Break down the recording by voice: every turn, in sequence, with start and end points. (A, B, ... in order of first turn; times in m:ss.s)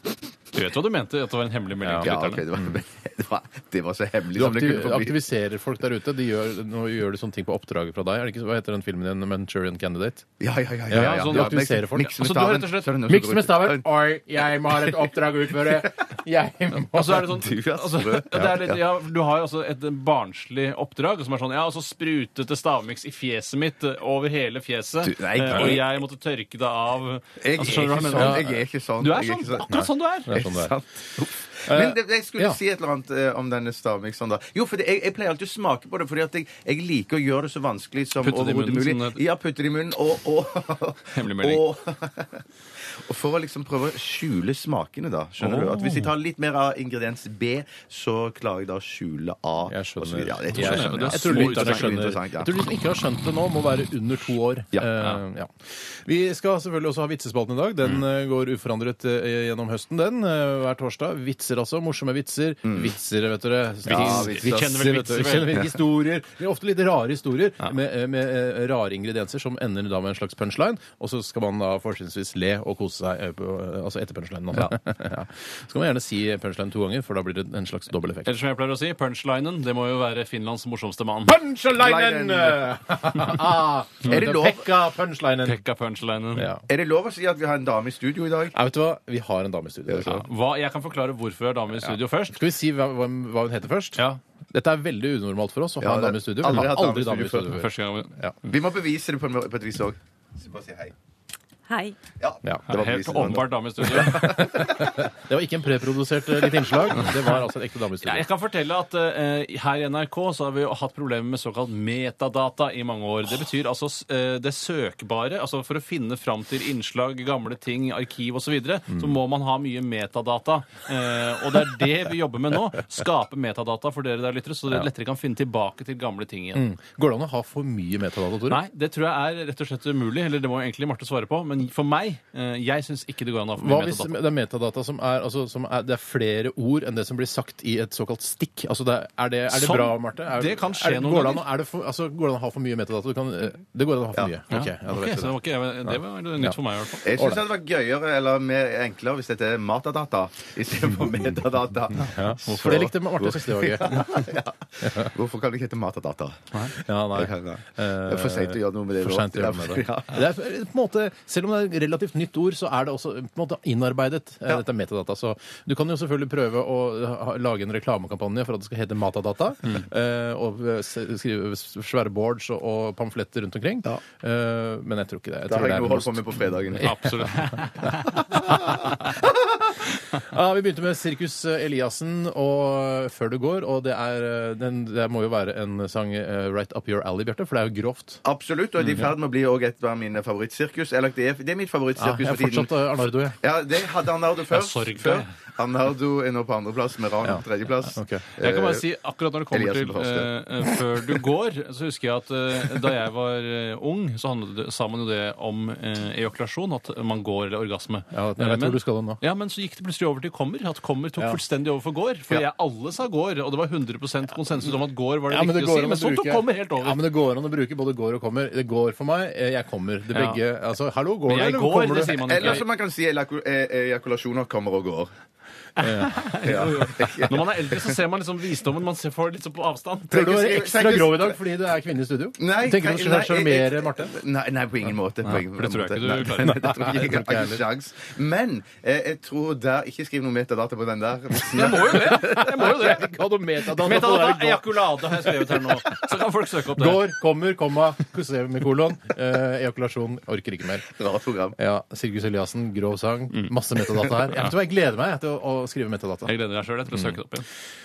0:00.5-0:02.4 A
0:01.8-0:02.7 B
0:02.0-0:05.2 C
0:04.4-0:10.3 B
0:10.4-0:13.9 C
0:10.9-0:12.2 B
0:10.9-0:12.9 A
0:13.1-0:17.4 B
0:15.5-0:15.9 C
0:16.8-0:28.4 A
0:17.3-0:18.8 C
0:25.0-0:25.9 C
0:27.4-0:29.7 C
0:28.2-0:28.5 B
0:29.0-0:30.8 A
0:29.7-0:30.7 B
0:30.3-0:42.4 C
0:31.7-0:32.6 B
0:38.2-0:39.2 A
0:41.1-0:41.6 A
0:43.0-0:52.5 C
0:45.4-0:46.1 B
0:49.7-1:18.3 B
0:50.5-0:52.0 A
1:02.6-1:02.9 C
1:03.9-1:05.4 C
1:03.9-1:05.7 A
1:18.2-1:21.4 A
1:21.2-1:25.6 B
1:21.8-1:22.8 C
1:24.0-1:24.7 C
1:25.4-1:26.5 A
1:26.4-1:26.6 B
1:26.7-1:28.6 C
1:28.5-1:30.3 B
1:29.9-1:30.2 C
1:30.0-1:32.4 A
1:32.3-1:37.7 B
1:35.8-1:37.6 C
1:37.5-1:38.2 A
1:38.4-1:40.9 C
1:42.2-1:44.9 C
1:42.7-1:44.5 A
1:44.0-1:48.3 B
1:47.0-1:47.4 A
1:48.0-2:06.6 A
2:06.6-2:08.6 B
2:08.5-2:14.2 A
2:13.6-2:25.4 B
2:19.5-2:21.4 A
2:24.5-2:27.1 A
2:25.9-2:26.6 B
2:27.0-2:36.5 C
2:27.2-2:27.4 B
2:32.0-2:34.2 B
2:32.4-2:32.9 A
2:34.8-2:35.1 B
2:36.7-2:58.8 B
2:37.1-2:40.2 C
2:55.5-2:57.0 C
2:56.8-2:58.2 A
3:00.1-3:08.2 B
3:08.2-3:12.7 C
3:12.0-3:13.4 B
3:13.4-3:18.8 C
3:14.5-3:15.3 A
3:17.2-3:18.3 B
3:18.4-3:37.0 A
3:19.5-3:20.3 C
3:28.1-3:29.2 B
3:35.3-3:42.6 B
3:40.1-3:40.4 A
3:41.3-3:42.6 A
3:42.1-3:45.1 C
3:45.8-3:46.2 B
3:45.8-3:50.2 A
3:46.4-3:47.9 C
3:50.1-3:51.4 C
3:50.1-3:54.1 B
3:52.4-4:02.7 C
3:55.2-3:56.7 A
3:56.4-3:57.6 B
4:01.5-4:03.1 A
4:01.6-4:06.0 B
4:03.7-4:07.0 A
4:06.7-4:10.9 B
4:11.0-4:11.6 C
4:11.6-4:16.4 B
4:16.3-4:17.5 A